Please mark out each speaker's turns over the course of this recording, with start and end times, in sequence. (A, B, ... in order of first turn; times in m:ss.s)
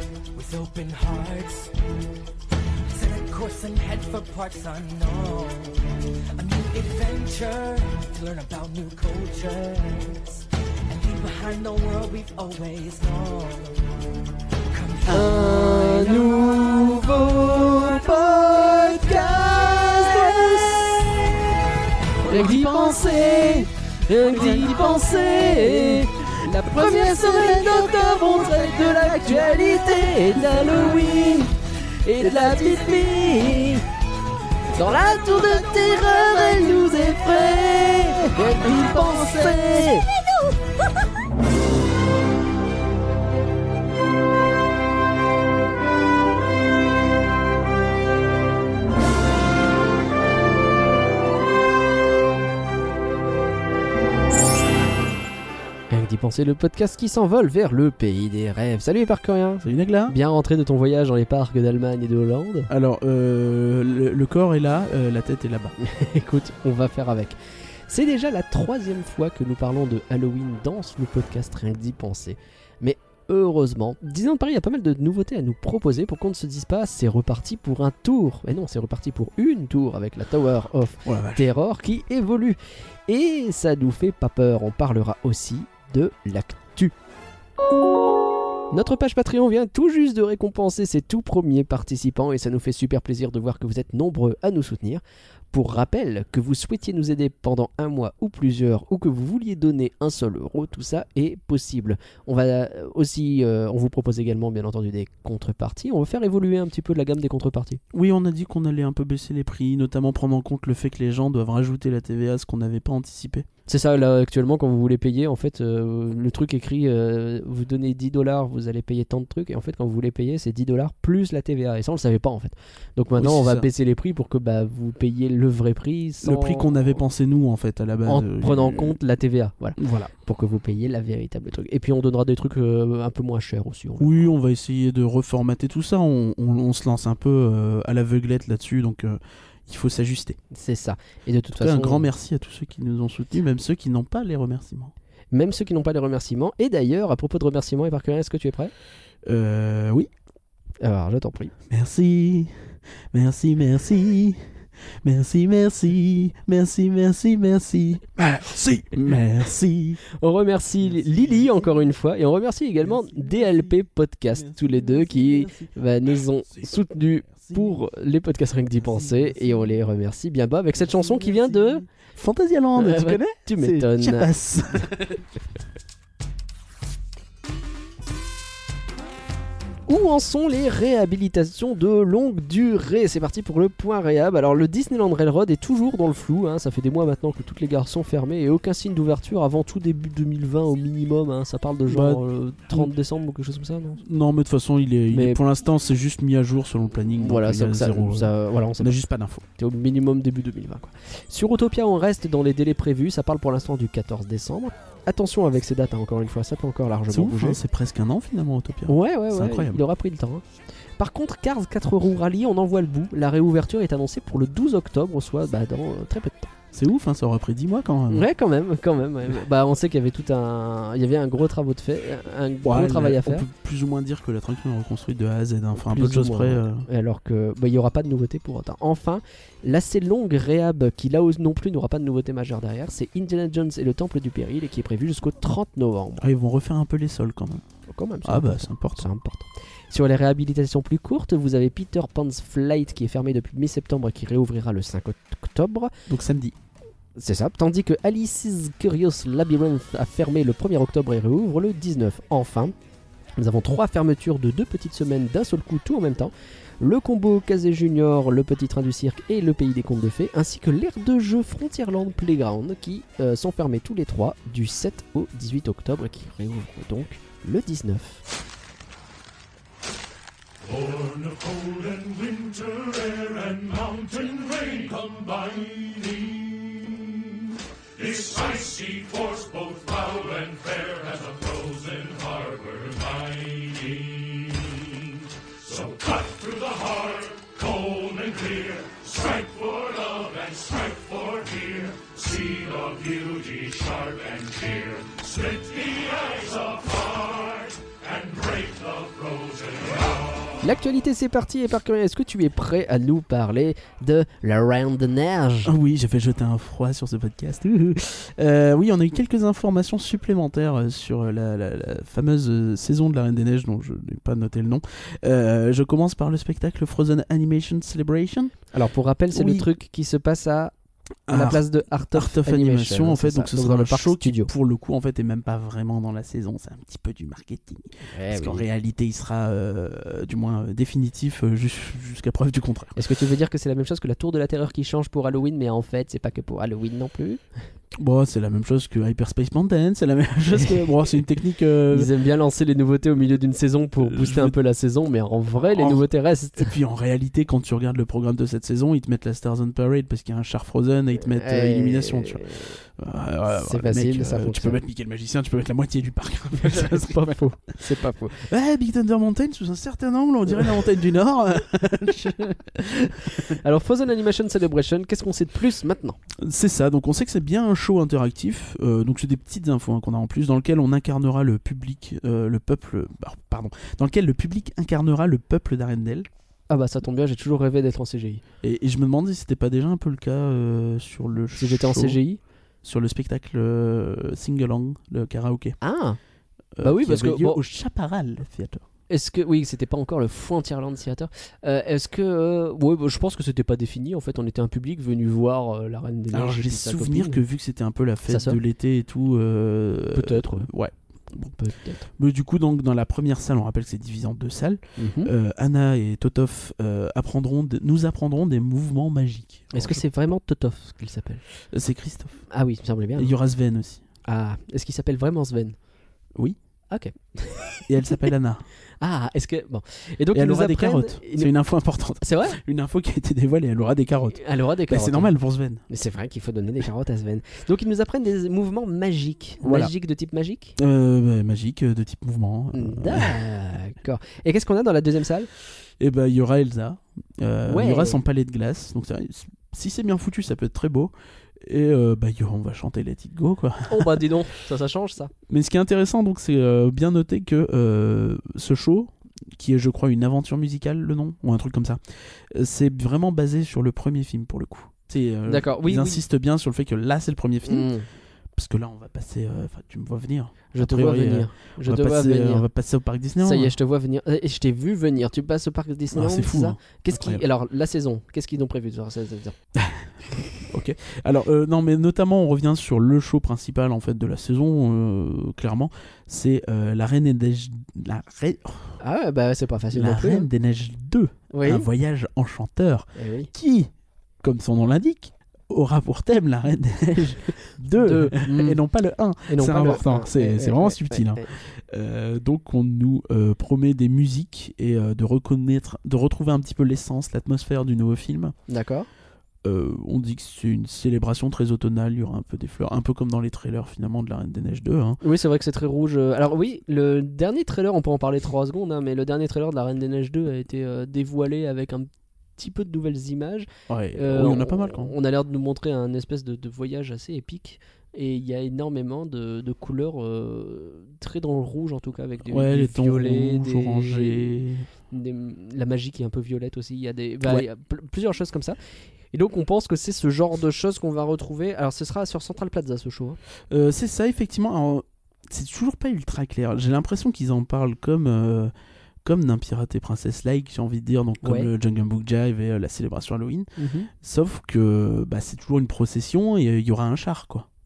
0:00.3-0:01.8 A
0:02.9-0:14.0 A
0:14.7-0:16.6 A
0:15.1-0:21.4 B
0:22.2-0:33.8 B
0:34.7-0:40.1 B
0:55.9-1:02.7 B
0:59.6-1:00.2 C
1:02.7-1:05.8 C
1:05.8-1:26.9 B
1:21.0-1:21.4 C
1:28.7-1:47.8 B
1:47.9-1:53.5 C
1:53.7-2:06.8 B
2:03.2-2:03.7 C
2:06.2-2:09.0 C
2:08.1-2:14.3 B
2:09.8-2:10.1 C
2:14.0-2:20.4 C
2:20.5-2:22.1 B
2:21.6-2:24.9 C
2:25.3-2:28.7 B
2:29.2-2:30.1 C
2:30.8-2:31.5 B
2:31.7-2:34.4 C
2:35.0-2:40.0 C
2:40.1-2:51.8 B
2:40.8-2:41.7 C
2:42.8-2:43.8 C
2:44.3-2:45.7 C
2:47.3-2:47.8 C
2:48.8-2:49.8 C
2:50.8-2:55.2 C
2:52.8-2:54.3 B
2:59.9-3:14.0 B
3:11.9-3:12.9 C
3:14.0-3:19.4 C
3:15.1-3:15.4 B
3:17.2-3:19.0 B
3:19.6-3:27.6 B
3:27.1-3:29.8 C
3:28.9-3:30.4 B
3:31.0-3:36.5 B
3:36.7-3:38.3 C
3:38.1-3:43.5 B
3:42.6-3:46.9 C
3:45.8-3:56.2 B
3:56.2-3:57.6 C
3:57.9-4:05.9 B
3:58.2-3:59.1 C
4:06.1-4:06.6 C
4:07.2-4:12.7 B
4:13.4-4:28.2 B
4:30.6-4:37.4 D
4:38.0-5:00.5 D
5:00.6-5:05.7 B
5:05.6-5:18.5 C
5:18.7-5:20.7 B
5:19.3-5:19.7 C
5:21.3-5:33.0 C
5:21.3-5:24.5 B
5:28.1-5:28.6 B
5:33.0-5:37.4 B
5:38.0-5:42.1 C
5:40.5-5:40.8 B
5:41.9-5:46.7 B
5:44.0-5:44.6 C
5:45.6-5:46.1 C
5:46.6-5:57.6 C
5:51.4-5:52.8 B
5:53.5-5:54.8 B
5:56.6-5:58.5 B
5:58.4-6:03.6 C
6:03.5-6:06.2 B
6:06.4-6:16.3 C
6:16.7-6:18.4 B
6:18.6-6:22.2 C
6:21.6-6:22.4 B
6:22.8-6:25.8 C
6:25.8-6:26.2 B
6:26.8-6:28.8 C
6:26.8-6:27.6 B
6:29.1-6:37.4 B
6:36.3-6:41.6 C
6:38.3-6:38.6 B
6:40.1-6:40.7 B
6:41.6-6:42.1 B
6:42.1-6:50.0 C
6:45.0-6:45.3 B
6:49.7-6:51.4 B
6:51.7-6:52.4 C
6:52.5-6:53.4 B
6:53.2-6:54.0 C
6:54.2-6:55.8 B
6:56.9-6:58.2 B
6:57.9-6:58.7 C
6:59.0-7:01.5 B
7:00.3-7:05.8 C
7:02.2-7:02.6 B
7:04.3-7:05.3 B
7:05.9-7:10.8 B
7:09.6-7:09.9 C
7:10.8-7:13.4 C
7:12.7-7:15.5 B
7:16.0-7:24.2 C
7:17.7-7:18.2 B
7:23.9-7:25.3 B
7:25.5-7:37.9 C
7:35.5-7:36.2 B
7:37.7-7:38.1 B
7:38.6-7:43.8 C
7:40.7-7:42.7 B
7:43.4-7:49.6 B
7:46.1-7:47.4 C
7:49.8-7:50.1 C
7:50.6-7:59.0 C
7:59.0-8:00.5 B
7:59.9-8:03.9 C
8:01.5-8:01.9 B
8:03.2-8:03.5 B
8:04.4-8:18.5 C
8:08.0-8:08.8 B
8:09.5-8:11.5 B
8:18.7-8:19.1 B
8:19.6-8:25.2 C
8:25.2-8:48.8 B
8:33.9-8:35.1 C
8:42.5-8:44.9 C
8:49.3-8:53.4 B
8:53.7-8:58.7 C
8:59.2-9:07.7 C
9:01.4-9:01.7 B
9:03.8-9:04.1 B